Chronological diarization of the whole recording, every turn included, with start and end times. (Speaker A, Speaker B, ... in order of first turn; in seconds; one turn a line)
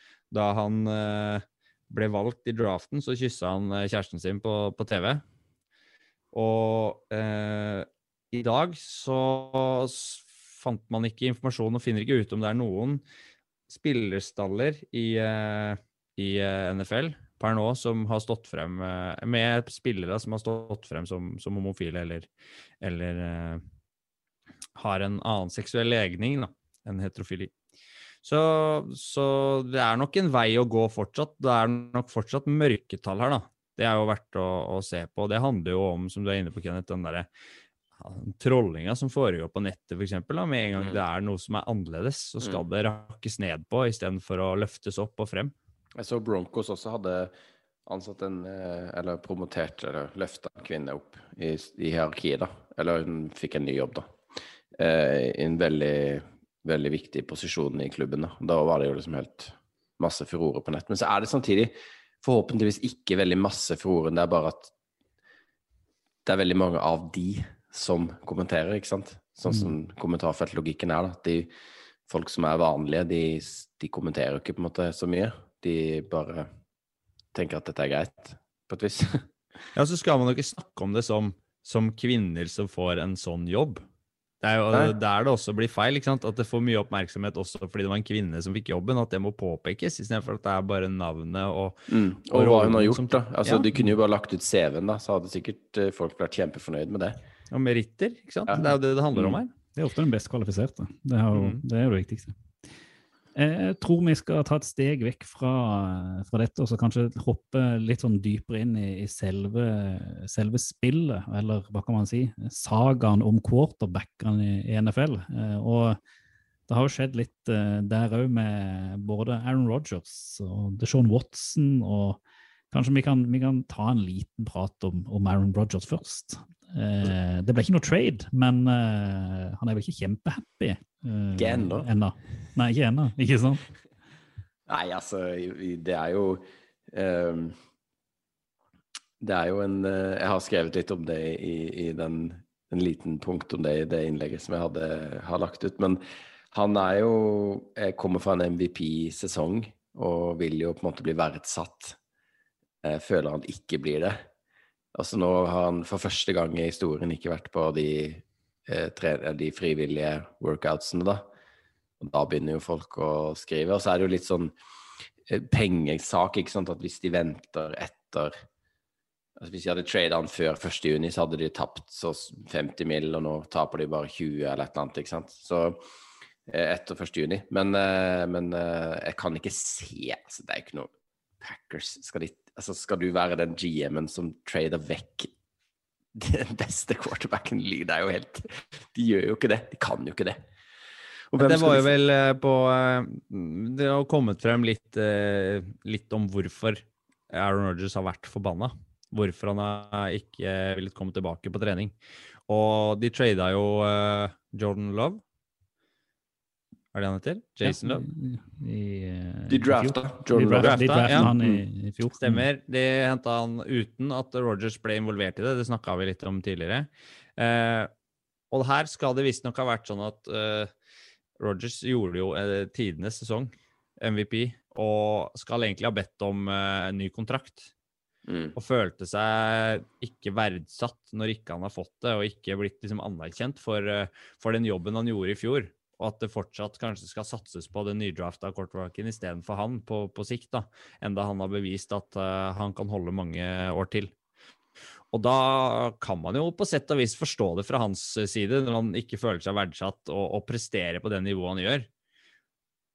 Speaker A: 0.3-5.2
Speaker A: 6.3-13.0
Speaker A: 13.7-22.3
Speaker A: 22.8-23.6
Speaker A: 24.8-27.5
Speaker A: 28.2-37.3
Speaker A: 38.0-45.5
Speaker B: 46.0-47.3
Speaker B: 47.9-54.1
Speaker B: 54.8-64.7
Speaker B: 66.3-71.5
Speaker B: 72.1-76.5
Speaker B: 77.3-79.3
Speaker A: 79.8-83.8
Speaker A: 84.4-93.7
Speaker B: 91.9-97.2
Speaker A: 97.5-99.5
Speaker B: 98.5-99.4
Speaker C: 99.8-102.3
Speaker A: 101.3-101.6
Speaker C: 103.3-116.0
Speaker C: 116.7-122.2
Speaker C: 122.7-133.6
Speaker B: 131.4-131.9
Speaker B: 134.7-137.6
Speaker B: 139.2-152.0
Speaker B: 152.8-154.2
Speaker B: 154.9-161.3
Speaker B: 162.0-164.6
Speaker B: 165.3-168.4
Speaker B: 169.4-175.8
Speaker B: 176.5-180.9
Speaker B: 181.4-185.3
Speaker B: 186.2-190.4
Speaker B: 191.3-191.9
Speaker A: 191.4-201.9
Speaker A: 202.5-205.2
Speaker A: 206.9-208.1
Speaker C: 207.6-212.4
Speaker B: 209.5-211.6
Speaker A: 210.6-211.3
Speaker A: 212.2-217.9
Speaker A: 218.5-220.7
Speaker A: 221.4-227.7
Speaker B: 228.3-228.6
Speaker A: 228.6-244.1
Speaker A: 245.1-251.9